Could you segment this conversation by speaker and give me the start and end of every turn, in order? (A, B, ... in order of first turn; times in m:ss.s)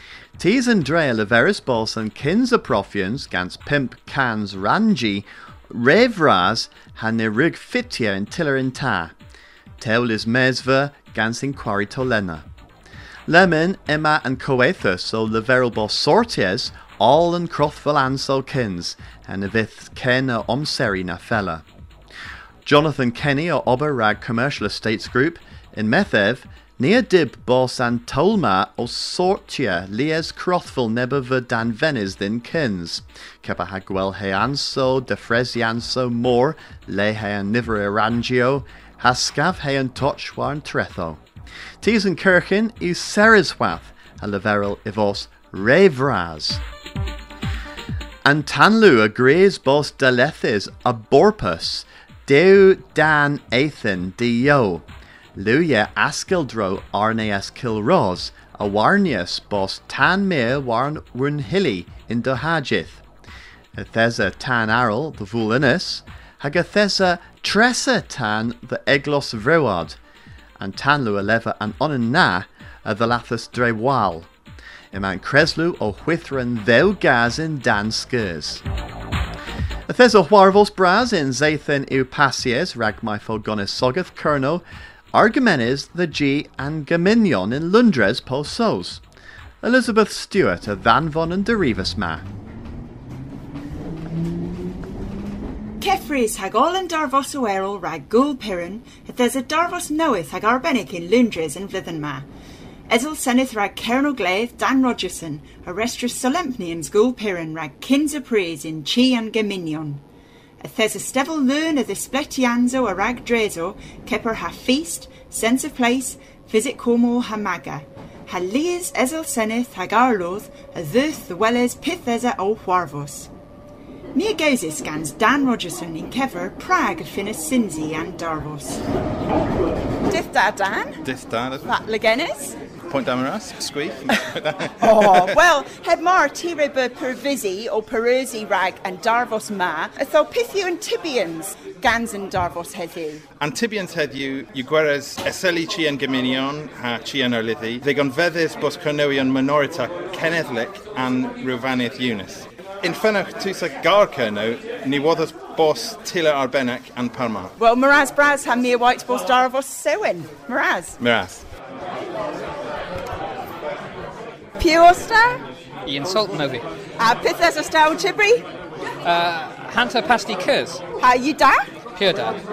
0:00.4-0:09.1 A
0:09.8-0:12.5 A
0:13.3-0:21.6 A
0:22.6-0:41.2 A
0:41.8-0:46.6 A
0:48.2-1:03.0 A
1:03.8-1:10.0 A
1:10.6-1:14.3 A
1:14.9-1:18.6 A
1:19.9-1:29.0 A
1:29.6-1:32.2 A
1:35.8-1:42.3 B
1:42.9-1:50.0 B
1:50.6-2:03.3 B
2:04.2-2:08.8 B
2:10.1-2:11.0 B
2:11.0-2:11.7 C
2:11.6-2:12.6 B
2:12.9-2:15.3 C
2:14.8-2:23.2 B
2:23.4-2:37.5 C
2:37.6-2:41.0 B
2:41.0-2:41.5 C
2:44.6-2:45.4 B
2:45.8-2:46.6 D
2:47.0-2:48.4 B
2:49.0-2:50.8 D
2:51.0-2:51.6 B
2:51.9-2:52.4 D